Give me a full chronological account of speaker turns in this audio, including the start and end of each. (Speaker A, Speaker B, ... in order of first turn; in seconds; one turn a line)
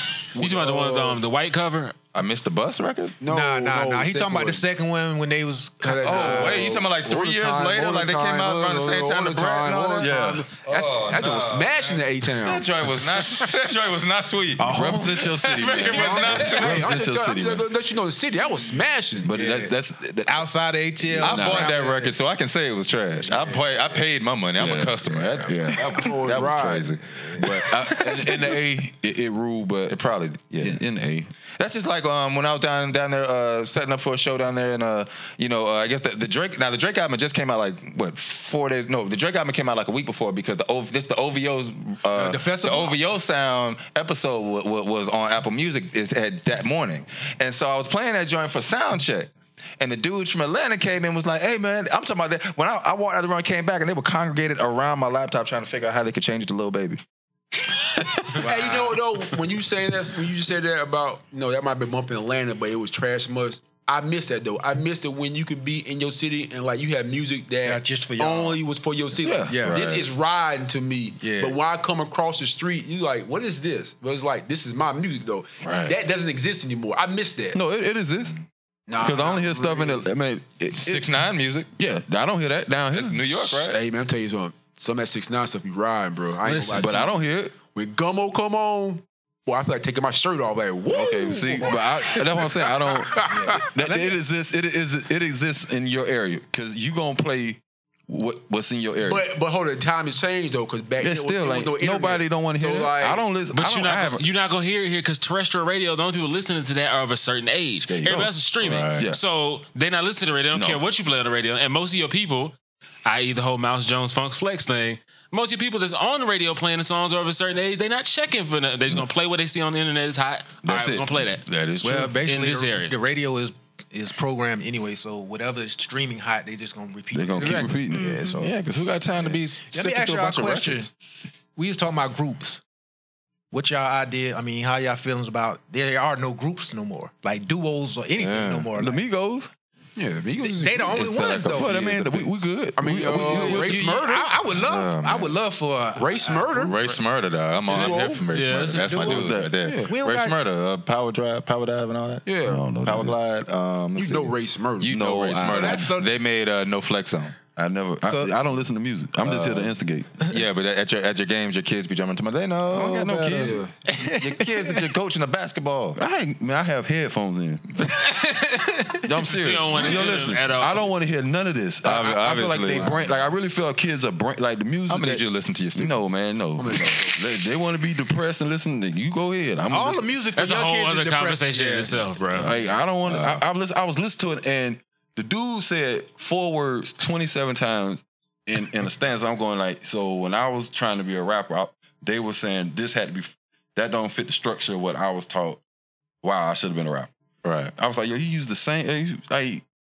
Speaker A: 0.3-1.2
Speaker B: 0.4-2.0
Speaker C: 2.1-3.2
Speaker A: 3.2-4.7
Speaker D: 3.2-6.9
Speaker A: 5.8-12.7
Speaker C: 6.0-16.9
Speaker E: 10.0-10.4
Speaker E: 14.6-17.7
Speaker D: 14.8-15.1
Speaker A: 15.9-19.3
Speaker E: 19.2-20.5
Speaker D: 19.3-22.1
Speaker E: 21.1-21.8
Speaker C: 21.2-27.2
Speaker D: 23.3-23.6
Speaker E: 24.6-26.1
Speaker D: 25.1-25.6
Speaker A: 25.9-26.9
Speaker E: 27.4-30.0
Speaker C: 29.9-30.8
Speaker E: 30.6-31.3
Speaker C: 31.5-57.0
Speaker D: 42.1-43.0
Speaker D: 58.4-59.0
Speaker A: 58.4-77.6
Speaker D: 67.7-68.6
Speaker E: 69.2-70.1
Speaker D: 69.5-69.8
Speaker D: 71.2-71.6
Speaker E: 75.6-76.0
Speaker E: 77.5-78.4
Speaker A: 78.9-80.1
Speaker E: 79.0-81.1
Speaker C: 80.7-81.7
Speaker E: 81.8-83.7
Speaker C: 82.9-83.8
Speaker A: 83.6-87.1
Speaker B: 86.4-87.0
Speaker E: 86.7-87.6
Speaker A: 87.7-93.7
Speaker E: 90.9-93.1
Speaker D: 93.3-94.2
Speaker E: 93.7-99.3
Speaker A: 99.0-103.3
Speaker E: 101.0-104.2
Speaker B: 103.5-112.5
Speaker E: 107.9-109.2
Speaker C: 108.6-108.9
Speaker E: 110.5-110.8
Speaker B: 113.0-121.5
Speaker E: 120.6-121.2
Speaker C: 121.5-122.1
Speaker D: 121.8-128.5
Speaker B: 122.1-123.0
Speaker E: 127.1-128.9
Speaker C: 128.3-130.9
Speaker D: 129.7-130.9
Speaker D: 131.6-132.6
Speaker D: 133.5-139.0
Speaker C: 138.2-138.7
Speaker E: 138.8-139.5
Speaker A: 140.0-141.1
Speaker D: 140.4-141.8
Speaker C: 140.8-142.5
Speaker E: 141.4-143.8
Speaker A: 142.8-144.4
Speaker D: 143.0-146.5
Speaker C: 143.1-143.7
Speaker C: 144.5-145.3
Speaker A: 146.0-146.8
Speaker C: 146.5-157.4
Speaker A: 147.6-148.2
Speaker B: 147.7-149.1
Speaker D: 148.9-150.4
Speaker E: 149.1-149.6
Speaker A: 149.6-149.9
Speaker A: 152.2-152.6
Speaker E: 152.4-153.2
Speaker A: 153.9-155.4
Speaker E: 155.0-155.9
Speaker D: 155.4-156.2
Speaker E: 157.5-160.2
Speaker D: 158.0-158.3
Speaker C: 159.2-159.7
Speaker C: 160.3-163.7
Speaker E: 162.7-163.5
Speaker A: 163.4-163.7
Speaker D: 163.9-164.8
Speaker C: 164.2-166.0
Speaker E: 166.0-167.7
Speaker D: 168.2-168.9
Speaker E: 169.0-175.2
Speaker B: 169.4-170.8
Speaker C: 171.8-173.2
Speaker C: 174.9-176.1
Speaker E: 175.7-180.1
Speaker A: 176.6-177.2
Speaker D: 179.7-182.0
Speaker B: 180.3-182.5
Speaker E: 182.3-195.6
Speaker C: 183.1-183.4
Speaker E: 196.2-197.1
Speaker C: 197.4-197.7
Speaker E: 197.8-199.6